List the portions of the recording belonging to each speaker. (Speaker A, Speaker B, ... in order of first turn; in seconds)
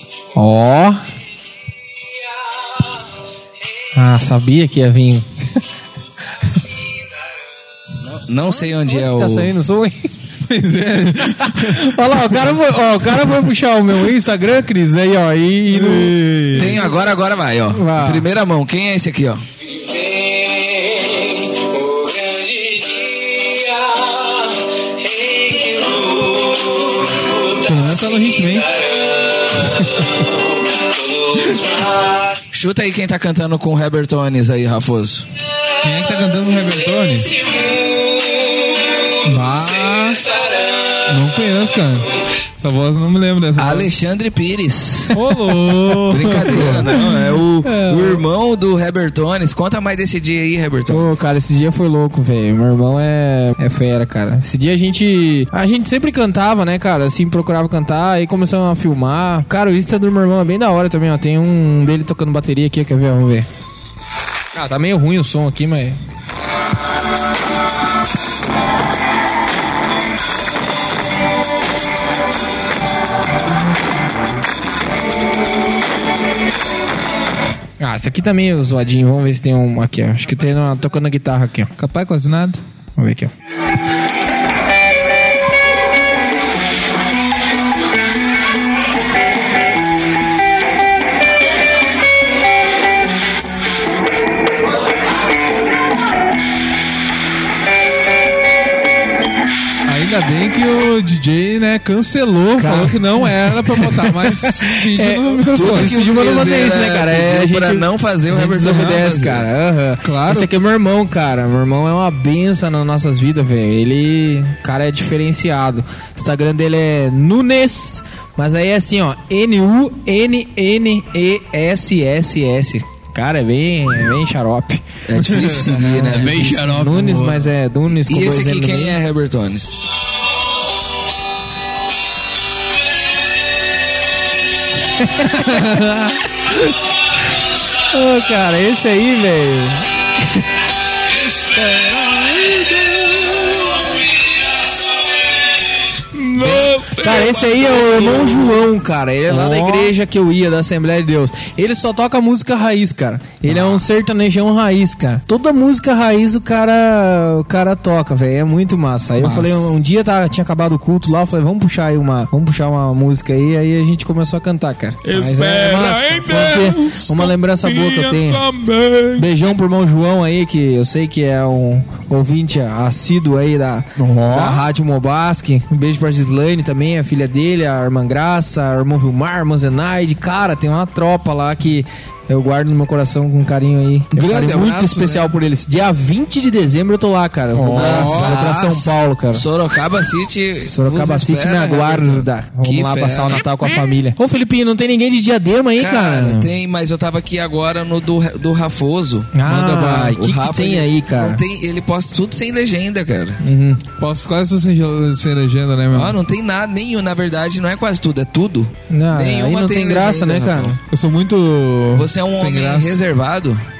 Speaker A: 0.4-1.0, 3.9-5.2, 8.7-10.1, 11.4-16.2, 17.7-18.3, 47.6-48.2, 50.9-63.5, 64.5-66.0, 77.8-81.7, 83.0-83.3, 102.6-103.2, 103.8-124.8, 126.1-129.0, 135.0-135.4, 137.9-140.4, 147.0-168.4, 169.2-189.4, 190.6-196.5, 199.3-201.4, 203.4-203.8, 208.9-210.8
Speaker B: 8.0-9.5, 16.5-24.4, 25.0-27.4, 32.5-35.3, 43.6-45.3, 45.9-51.1, 105.5-109.5, 125.0-126.7, 127.9-129.8, 146.4-146.9, 187.7-193.4, 195.8-203.4, 205.9-210.8, 211.9-213.6
Speaker C: 10.5-13.5, 15.7-16.8, 27.6-28.7, 35.8-37.4, 39.2-40.2, 41.1-43.9, 45.1-47.3, 81.8-82.6, 99.9-105.9, 108.6-108.9, 110.0-110.5, 125.3-127.5, 135.2-136.7, 141.6-143.4, 146.1-148.6, 149.2-149.9, 153.5-153.8, 159.2-159.7, 165.1-169.3, 174.0-174.6, 184.1-185.3, 187.5-188.4, 199.6-199.8, 204.0-206.1, 210.9-213.0